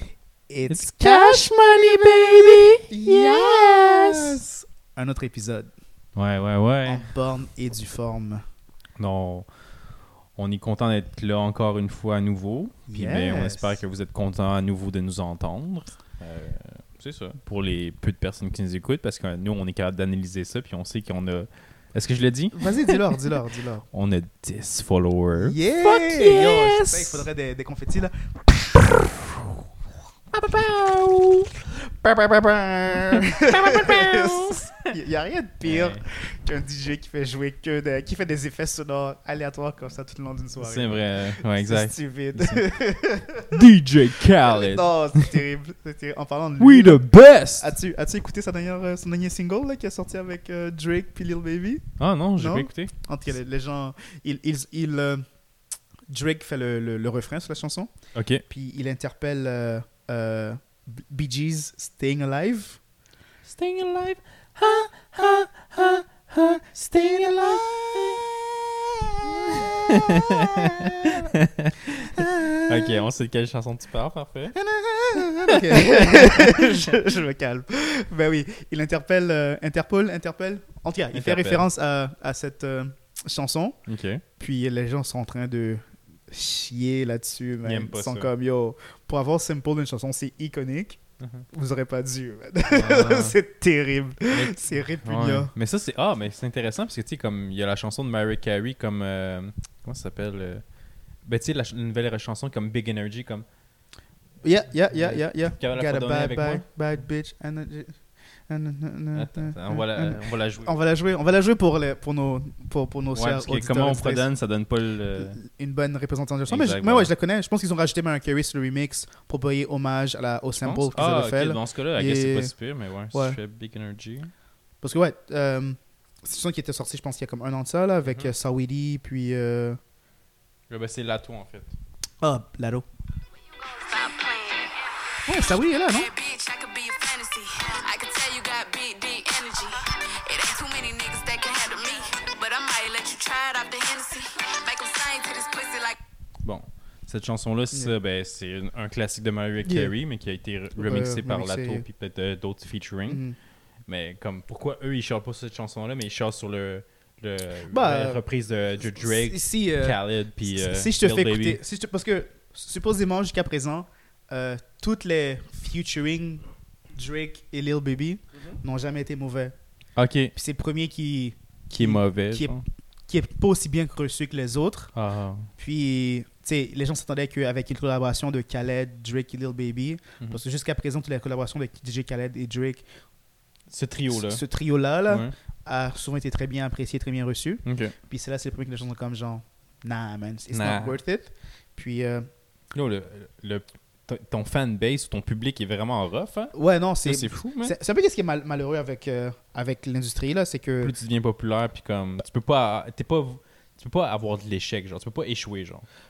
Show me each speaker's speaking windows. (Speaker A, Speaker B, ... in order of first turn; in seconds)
Speaker A: 0.5-5.7, 6.8-8.4, 12.9-13.8, 22.5-23.9, 25.4-28.8, 32.5-43.5, 44.4-47.0, 47.6-51.8, 52.4-55.2, 56.1-57.9, 58.5-62.8, 66.9-68.0, 69.2-71.3, 72.1-73.0, 74.5-83.8, 84.4-91.0, 91.5-95.5, 104.4-108.0, 108.5-114.3, 115.2-122.5, 123.1-123.4, 124.8-129.8, 132.2-132.8, 135.3-136.1, 149.6-149.9, 150.8-151.8, 153.1-153.3, 157.7-158.2, 158.8-169.5, 170.3-172.5, 173.1-174.9, 175.6-182.8, 184.1-192.3, 196.5-200.9
Speaker B: 0.7-4.4, 6.1-7.1, 9.0-9.5, 10.3-23.4, 23.9-27.2, 30.3-31.5, 32.0-32.4, 32.9-34.9, 35.6-36.0, 40.6-42.6, 43.5-45.4, 46.6-47.7, 52.0-52.9, 58.1-58.4, 63.4-68.2, 69.3-74.5, 75.1-77.0, 81.1-81.6, 83.8-84.2, 87.6-88.3, 92.7-93.4, 94.3-100.6, 101.2-103.5, 104.9-106.7, 109.1-110.7, 113.1-115.4, 116.5-117.1, 120.6-124.3, 128.0-128.3, 130.7-131.7, 146.4-153.2, 153.9-161.6, 169.9-170.3, 171.7-172.6, 174.9-175.5, 183.7-184.4, 185.1-185.3, 187.6-187.9, 190.5-191.0, 192.7-197.7, 200.8-205.8
Speaker C: 133.7-146.0